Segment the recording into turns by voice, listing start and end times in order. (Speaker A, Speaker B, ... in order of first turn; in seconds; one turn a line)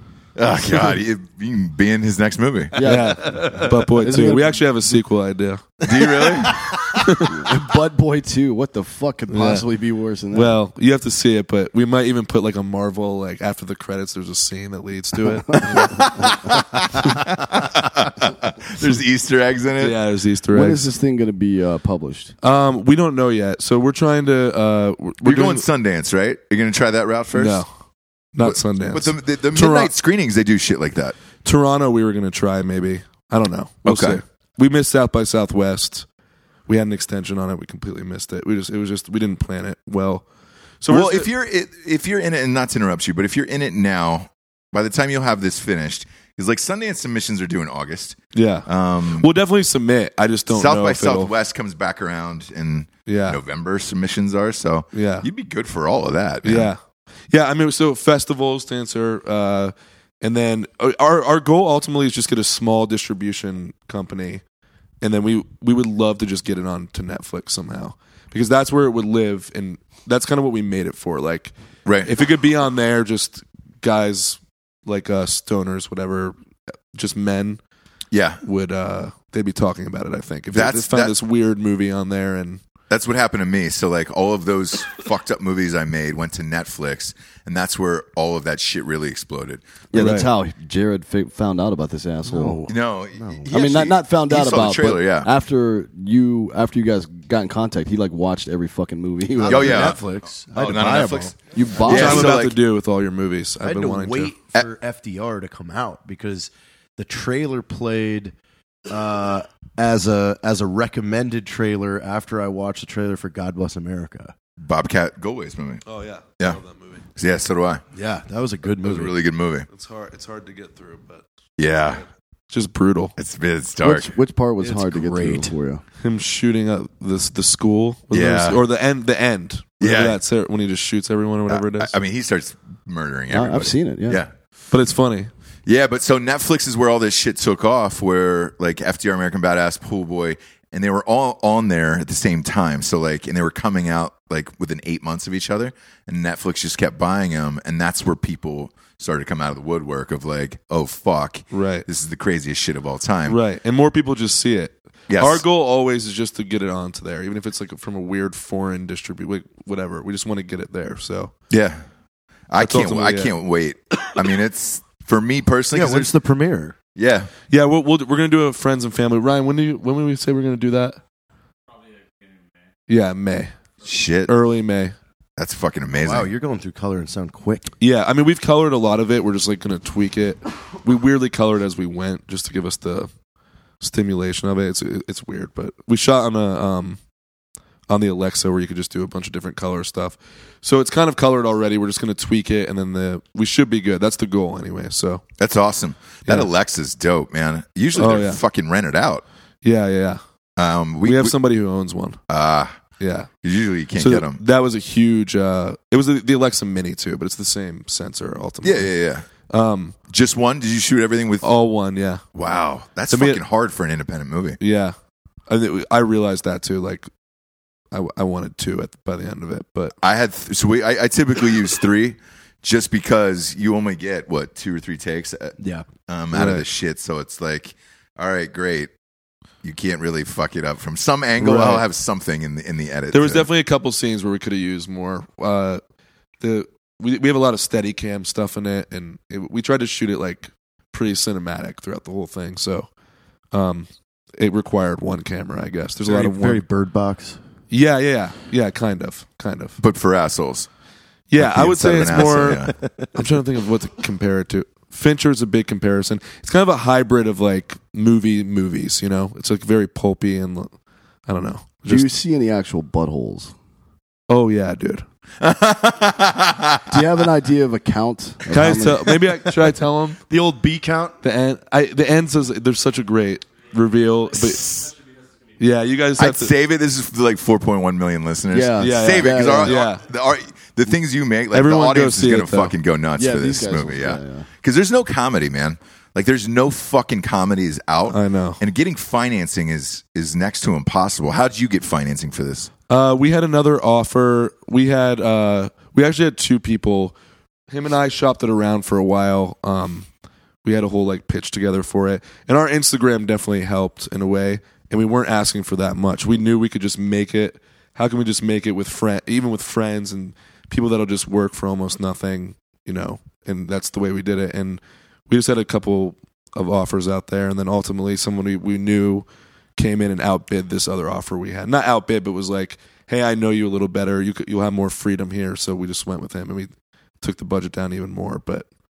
Speaker A: 0.3-2.8
Speaker B: 2.7-4.6
Speaker C: 2.8-5.7
Speaker A: 5.8-6.7
Speaker D: 5.9-7.0
Speaker C: 6.9-7.5
Speaker B: 7.2-10.6
Speaker C: 9.3-9.6
Speaker C: 10.3-16.8
Speaker B: 15.6-15.9
Speaker A: 15.8-19.9
Speaker C: 19.8-20.9
Speaker B: 20.5-22.3
Speaker C: 22.4-25.6
Speaker A: 25.2-27.6
Speaker C: 27.3-27.7
Speaker C: 28.3-29.9
Speaker A: 28.4-31.2
Speaker C: 31.4-36.0
Speaker A: 33.9-34.2
Speaker C: 36.7-40.2
Speaker C: 40.8-41.3
Speaker A: 40.9-49.3
Speaker C: 48.3-51.3
Speaker A: 50.5-56.7
Speaker C: 53.1-53.4
Speaker C: 54.9-55.3
Speaker C: 56.4-56.8
Speaker C: 57.3-64.4
Speaker C: 65.0-71.5
Speaker A: 71.8-72.1
Speaker C: 72.0-76.3
Speaker C: 76.9-77.6
Speaker A: 78.1-78.4
Speaker C: 78.4-82.6
Speaker A: 80.5-81.1
Speaker A: 82.9-90.1
Speaker B: 89.9-92.6
Speaker C: 89.9-90.3
Speaker D: 92.2-93.5
Speaker A: 92.7-95.3
Speaker B: 93.5-100.0
Speaker D: 99.4-101.3
Speaker A: 99.4-102.6
Speaker B: 101.5-102.3
Speaker C: 101.8-104.3
Speaker D: 103.6-108.3
Speaker D: 108.9-114.3
Speaker A: 114.6-115.8
Speaker C: 115.8-117.0
Speaker A: 117.2-117.8
Speaker D: 117.9-119.1
Speaker A: 118.8-119.7
Speaker C: 119.7-121.2
Speaker A: 121.6-122.0
Speaker C: 122.5-123.1
Speaker A: 123.2-124.1
Speaker B: 123.8-125.8
Speaker D: 124.6-125.5
Speaker C: 126.0-131.9
Speaker A: 128.1-128.6
Speaker A: 129.8-130.2
Speaker A: 131.5-134.3
Speaker B: 133.3-134.2
Speaker C: 134.7-135.3
Speaker A: 135.7-153.4
Speaker C: 151.5-151.9
Speaker C: 153.3-161.3
Speaker A: 155.1-155.4
Speaker A: 161.5-161.8
Speaker A: 162.5-166.1
Speaker C: 162.6-163.3
Speaker D: 165.7-166.8
Speaker A: 166.9-167.3
Speaker C: 167.5-171.0
Speaker C: 172.9-173.5
Speaker A: 173.8-174.3
Speaker C: 174.3-174.9
Speaker A: 175.4-176.3
Speaker D: 176.0-177.7
Speaker C: 177.8-183.1
Speaker C: 183.8-187.0
Speaker C: 187.9-195.2
Speaker A: 195.4-199.2
Speaker C: 198.0-198.4
Speaker C: 199.6-200.2
Speaker A: 200.6-201.3
Speaker C: 201.0-202.2
Speaker A: 202.3-202.8
Speaker C: 203.0-203.3
Speaker A: 203.4-204.4
Speaker C: 204.0-208.9
Speaker A: 208.6-209.2
Speaker C: 209.5-210.0
Speaker A: 210.1-211.5
Speaker C: 211.4-212.2
Speaker A: 212.3-214.6
Speaker C: 213.1-213.4
Speaker C: 214.6-214.9
Speaker C: 215.5-217.1
Speaker C: 217.9-219.9
Speaker A: 220.0-228.9
Speaker D: 225.6-225.8
Speaker C: 226.3-226.7
Speaker A: 229.6-233.5
Speaker C: 231.4-231.8
Speaker C: 233.1-235.8
Speaker C: 236.4-242.9
Speaker C: 243.5-246.6
Speaker D: 246.0-247.4
Speaker C: 247.7-249.8
Speaker A: 249.8-250.7
Speaker C: 251.3-260.7
Speaker A: 251.3-252.7
Speaker D: 252.4-253.1
Speaker C: 261.2-262.1
Speaker B: 261.9-263.5
Speaker C: 264.3-265.0
Speaker A: 265.4-267.0
Speaker B: 266.9-269.1
Speaker C: 268.5-270.2
Speaker D: 270.3-271.2
Speaker C: 271.2-274.9
Speaker C: 275.6-276.5
Speaker A: 276.2-292.7
Speaker B: 278.5-279.8
Speaker C: 278.8-280.0
Speaker C: 281.5-282.7
Speaker B: 283.1-284.4
Speaker C: 288.1-288.6
Speaker C: 292.9-297.1
Speaker C: 297.7-300.1
Speaker C: 300.6-319.2
Speaker C: 319.8-326.7
Speaker C: 327.2-328.6